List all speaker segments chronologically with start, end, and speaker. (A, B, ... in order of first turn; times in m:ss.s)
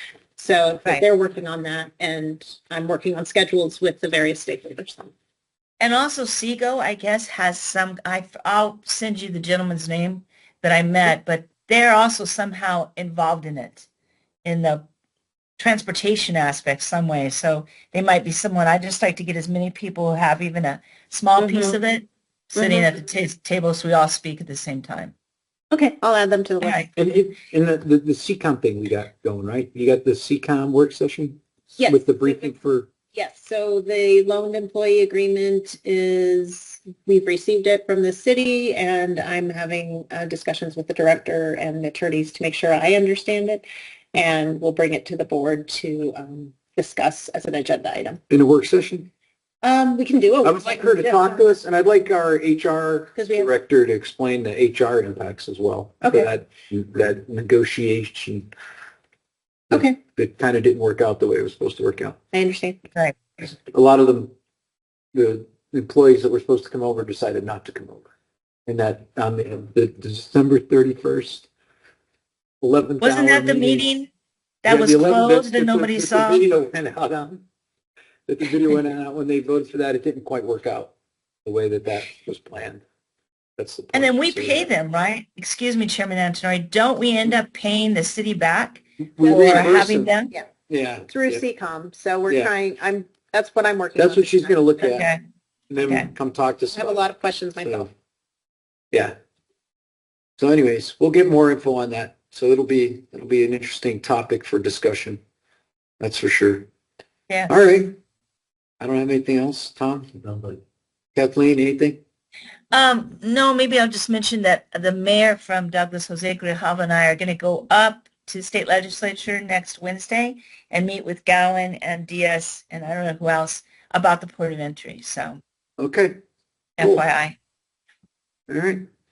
0:00.4-0:05.1 A
0:05.8-0:13.9 B
0:14.4-0:14.8 B
0:15.6-0:25.1 B
0:21.4-0:21.8 A
0:22.6-0:22.9 A
0:25.7-0:26.8 A
0:26.6-0:26.9 B
0:27.0-0:32.9 C
0:31.8-0:32.6 A
0:33.1-0:48.2 A
0:48.3-0:49.1 C
0:49.6-0:51.4 A
0:50.4-0:58.5 C
0:53.2-0:53.5 A
0:56.0-0:56.3 A
0:59.7-1:02.2 C
0:59.7-1:00.0 A
1:02.3-1:02.8 A
1:03.4-1:04.3 C
1:05.1-1:08.1 C
1:08.7-1:11.5 C
1:12.6-1:13.9 C
1:13.0-1:14.1 B
1:14.6-1:16.5 B
1:14.7-1:17.4 C
1:18.3-1:20.9 C
1:21.4-1:22.8 C
1:23.6-1:24.7 C
1:23.9-1:30.3 B
1:29.2-1:30.1 C
1:29.2-1:30.5 A
1:30.7-1:31.4 C
1:31.1-1:35.0 A
1:34.0-1:35.1 C
1:34.8-1:35.2 B
1:35.7-1:37.0 C
1:36.7-1:37.9 A
1:37.6-1:37.9 C
1:40.4-1:45.2 C
1:46.0-1:46.7 C
1:47.3-1:47.6 B
1:47.5-1:48.0 C
1:48.8-1:50.6 C
1:51.2-1:52.0 C
1:52.7-2:05.4 B
2:05.8-2:06.2 C
2:06.8-2:07.0 C
2:06.8-2:07.4 B
2:08.5-2:08.8 C